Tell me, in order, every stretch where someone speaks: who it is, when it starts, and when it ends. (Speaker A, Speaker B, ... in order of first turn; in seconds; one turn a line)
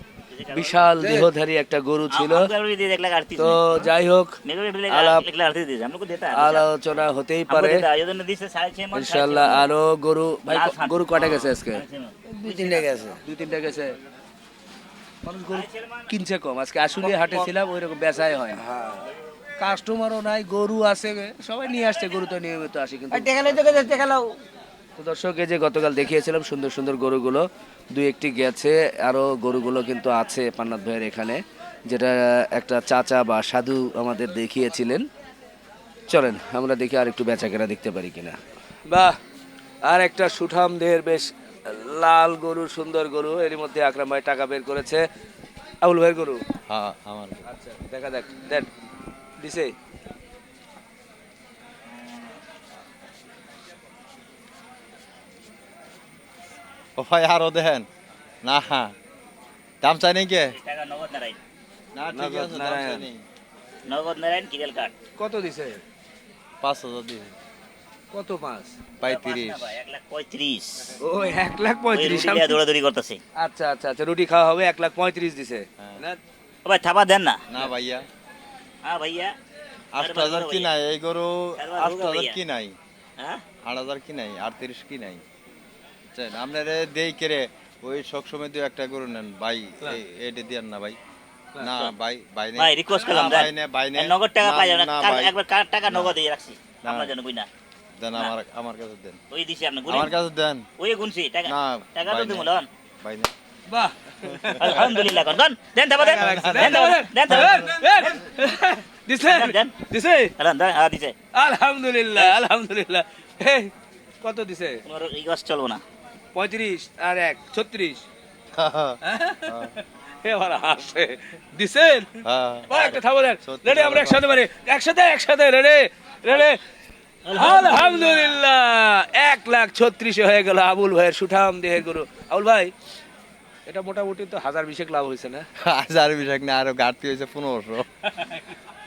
Speaker A: 0.3-0.8
Speaker B: 0.5-2.5
Speaker A: 2.1-3.9
Speaker B: 3.4-4.3
Speaker A: 4.4-6.6
Speaker B: 4.9-5.2
Speaker B: 6.3-7.8
Speaker A: 7.5-9.6
Speaker B: 8.9-11.8
Speaker A: 10.5-12.9
Speaker C: 12.3-13.2
Speaker B: 13.2-13.9
Speaker B: 15.2-18.6
Speaker A: 15.5-16.1
Speaker C: 17.0-17.3
Speaker C: 18.6-19.0
Speaker B: 19.6-23.9
Speaker C: 23.1-24.2
Speaker B: 25.0-35.0
Speaker B: 36.1-38.4
Speaker B: 38.9-39.2
Speaker B: 39.9-45.0
Speaker B: 45.8-46.4
Speaker D: 46.7-47.4
Speaker B: 47.5-48.7
Speaker B: 49.4-49.7
Speaker D: 57.0-57.9
Speaker D: 58.4-58.9
Speaker D: 59.8-60.5
Speaker A: 60.5-61.4
Speaker D: 61.9-63.2
Speaker B: 62.1-63.0
Speaker A: 63.9-64.9
Speaker B: 65.2-65.8
Speaker D: 66.6-67.3
Speaker B: 68.1-68.8
Speaker D: 69.0-69.7
Speaker A: 69.0-71.0
Speaker B: 71.0-72.6
Speaker A: 71.9-73.2
Speaker B: 73.4-76.2
Speaker A: 76.6-77.4
Speaker D: 77.5-78.0
Speaker A: 78.8-79.3
Speaker D: 79.9-82.7
Speaker A: 80.0-80.7
Speaker A: 81.6-82.3
Speaker D: 83.7-85.2
Speaker D: 86.1-91.0
Speaker D: 91.6-95.3
Speaker A: 92.6-97.5
Speaker D: 95.9-96.1
Speaker D: 96.8-97.1
Speaker D: 98.0-99.2
Speaker A: 99.3-100.2
Speaker D: 99.9-100.6
Speaker A: 100.8-102.7
Speaker D: 101.5-102.5
Speaker D: 103.0-103.3
Speaker B: 103.7-105.2
Speaker A: 104.6-108.2
Speaker B: 106.0-110.3
Speaker D: 106.2-106.8
Speaker A: 109.2-109.7
Speaker A: 110.4-111.2
Speaker B: 111.3-113.7
Speaker B: 114.2-114.8
Speaker A: 114.8-115.8
Speaker B: 116.3-118.1
Speaker D: 118.5-119.7
Speaker B: 119.0-122.1
Speaker D: 122.2-122.8
Speaker A: 122.7-123.0
Speaker B: 122.7-126.5
Speaker D: 123.4-124.2
Speaker A: 127.2-128.1
Speaker B: 127.3-132.7
Speaker B: 133.7-135.4
Speaker D: 135.6-137.8
Speaker B: 138.0-138.4